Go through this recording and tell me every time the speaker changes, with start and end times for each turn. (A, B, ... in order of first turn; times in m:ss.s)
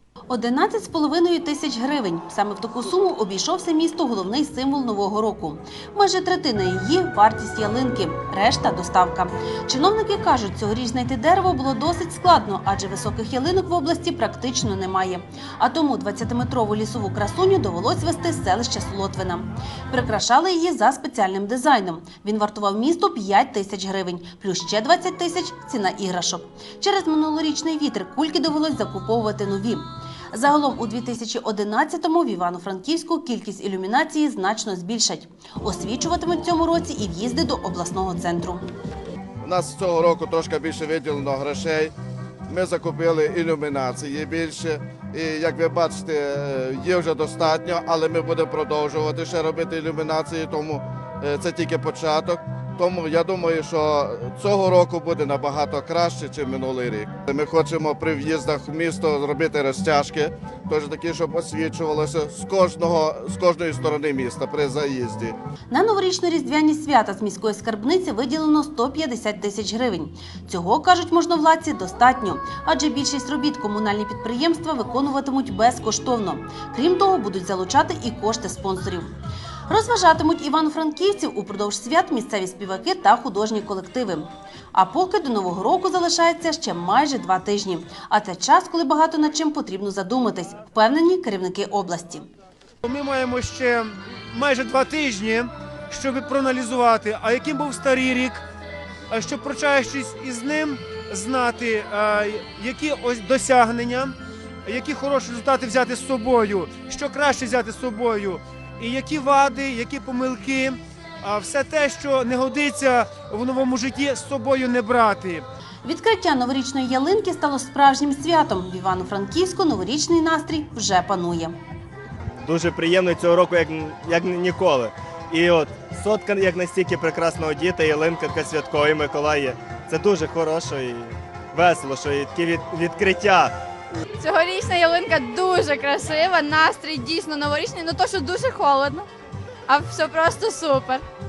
0:00.3-0:38.6 A
0:39.4-0:41.9 B
0:42.5-1:05.3 B
1:05.7-1:19.1 A
1:19.7-1:32.3 A
1:32.8-1:33.8 C
1:34.4-1:38.4 C
1:39.1-1:44.1 C
1:44.7-1:50.7 C
1:51.3-1:55.4 C
1:55.8-2:01.6 A
2:02.4-2:13.5 D
2:14.2-2:19.1 E
2:19.7-2:21.0 E